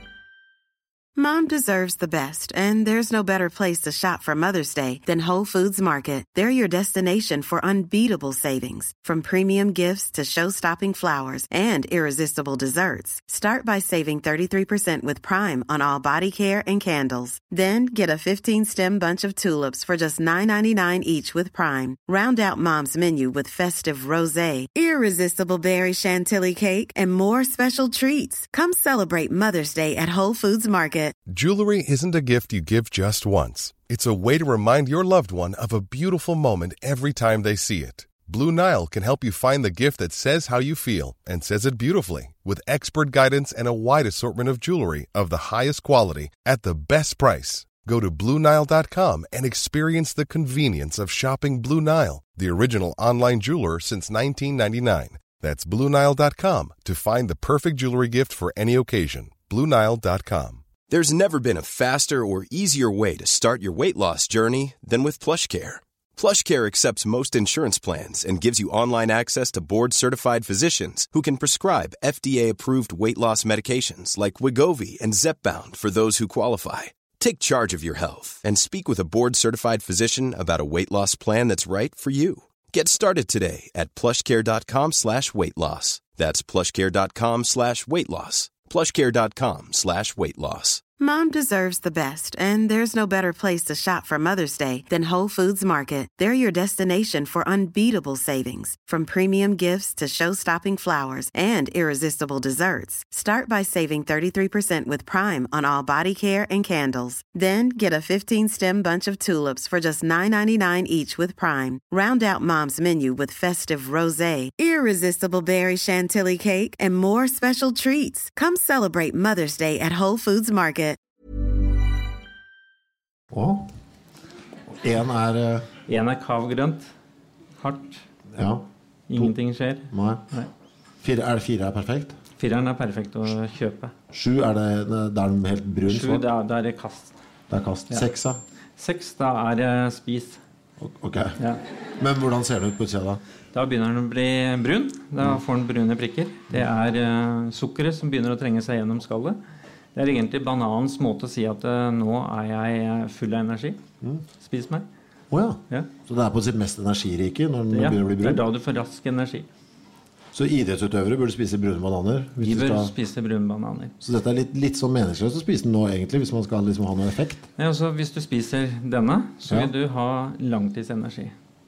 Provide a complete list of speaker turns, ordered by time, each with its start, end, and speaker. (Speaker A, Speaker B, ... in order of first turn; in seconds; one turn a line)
Speaker A: 1.1-31.1
Speaker B: 31.3-60.6
Speaker C: 60.9-90.8
Speaker A: 91.0-121.0
Speaker D: 123.3-123.7
Speaker D: 124.7-125.7
Speaker E: 125.9-126.9
Speaker E: 127.6-128.1
Speaker D: 128.3-128.6
Speaker E: 129.1-130.5
Speaker D: 129.9-130.2
Speaker D: 131.0-132.2
Speaker E: 132.4-133.9
Speaker D: 134.1-136.3
Speaker E: 135.8-137.2
Speaker D: 137.5-138.4
Speaker E: 138.8-140.4
Speaker D: 140.8-141.4
Speaker D: 142.0-143.2
Speaker E: 143.5-149.4
Speaker E: 149.9-153.8
Speaker E: 154.4-154.9
Speaker D: 155.3-158.4
Speaker E: 157.7-159.5
Speaker D: 160.3-162.9
Speaker E: 162.4-163.9
Speaker D: 164.0-167.5
Speaker E: 167.6-171.3